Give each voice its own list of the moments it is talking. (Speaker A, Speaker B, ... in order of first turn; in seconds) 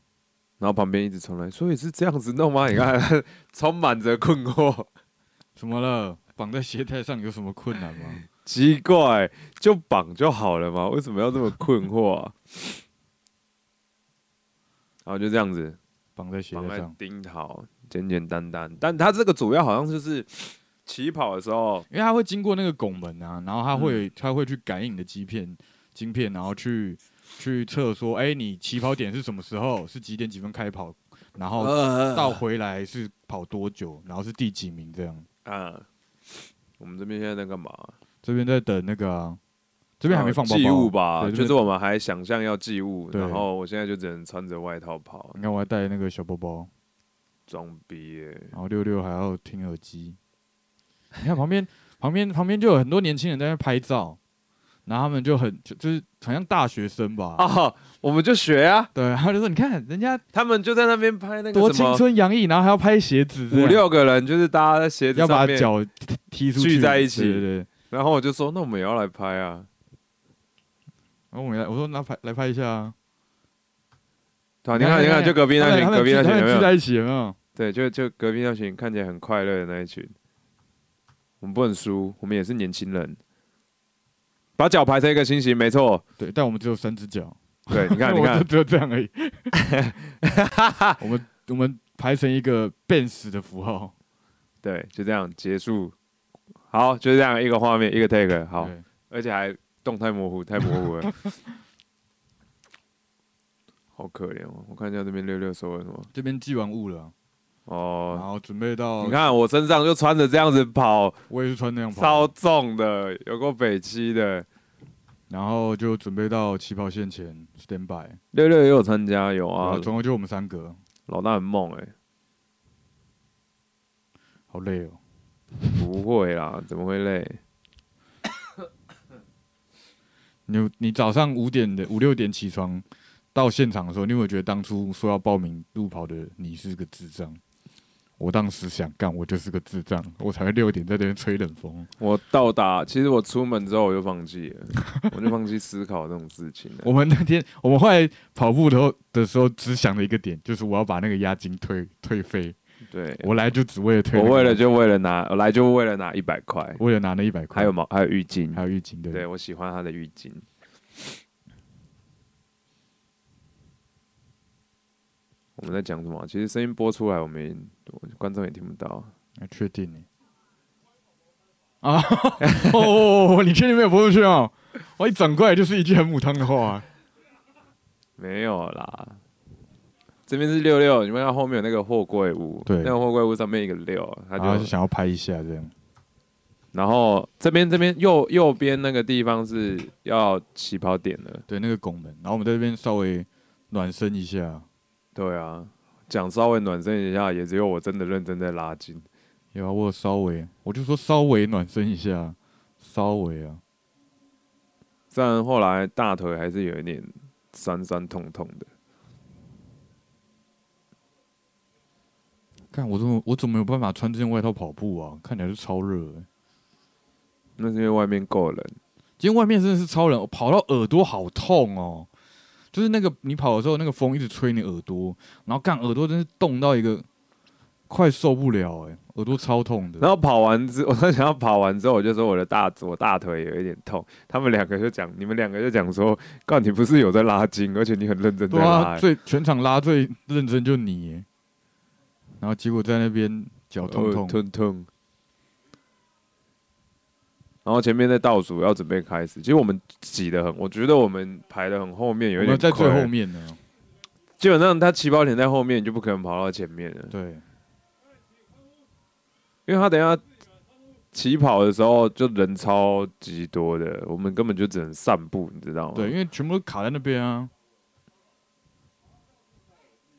Speaker A: 0.6-4.9, 8.3-12.8, 15.1-15.8, 16.5-21.9, 31.6-32.4, 35.5-35.9, 36.8-38.0, 40.1-45.4, 47.5-48.5, 57.4-58.9, 60.3-62.0, 63.5-65.7, 66.6-69.7, 74.6-76.7, 77.6-80.1, 81.4-83.2, 84.6-86.0, 87.7-88.5, 89.5-91.0, 94.6-95.9, 96.7-101.1, 104.0-106.1, 107.7-108.2, 109.0-111.2, 111.9-114.5, 118.3-119.9, 121.1-121.9, 125.7-127.4, 142.0-146.9, 152.9-153.3, 154.1-156.8, 157.5-158.6, 159.1-160.5, 165.6-169.1, 172.4-172.9, 178.2-179.2, 180.3-184.7, 186.7-191.4, 195.2-199.1, 205.1-208.7, 217.6-218.8, 230.0-239.1, 243.8-244.9, 247.7-253.1, 254.4-257.1, 259.7-260.2, 261.1-266.1
Speaker B: 5.6-8.2, 16.2-16.9, 21.9-35.3, 38.2-39.4, 40.0-41.6, 43.1-43.5, 45.3-46.7, 48.5-50.2, 51.2-54.2, 54.9-57.5, 59.0-60.2, 61.5-63.8, 65.2-67.7, 71.3-73.0, 74.7-77.4, 86.2-89.5, 91.0-93.9, 98.6-98.8, 101.0-101.3, 106.1-107.1, 108.1-109.2, 111.3-112.3, 115.3-118.2, 119.6-120.8, 124.5-125.0, 130.5-137.4, 138.2-141.9, 146.8-152.6, 153.2-154.6, 156.8-157.7, 158.5-159.2, 169.4-170.1, 171.8-176.8, 182.7-182.9, 184.4-185.7, 191.5-194.7, 199.5-203.6, 212.7-216.3, 219.2-222.1, 222.7-227.1, 227.9-230.1, 238.5-241.3, 242.4-244.4, 252.4-253.6, 257.1-257.4, 265.9-267.5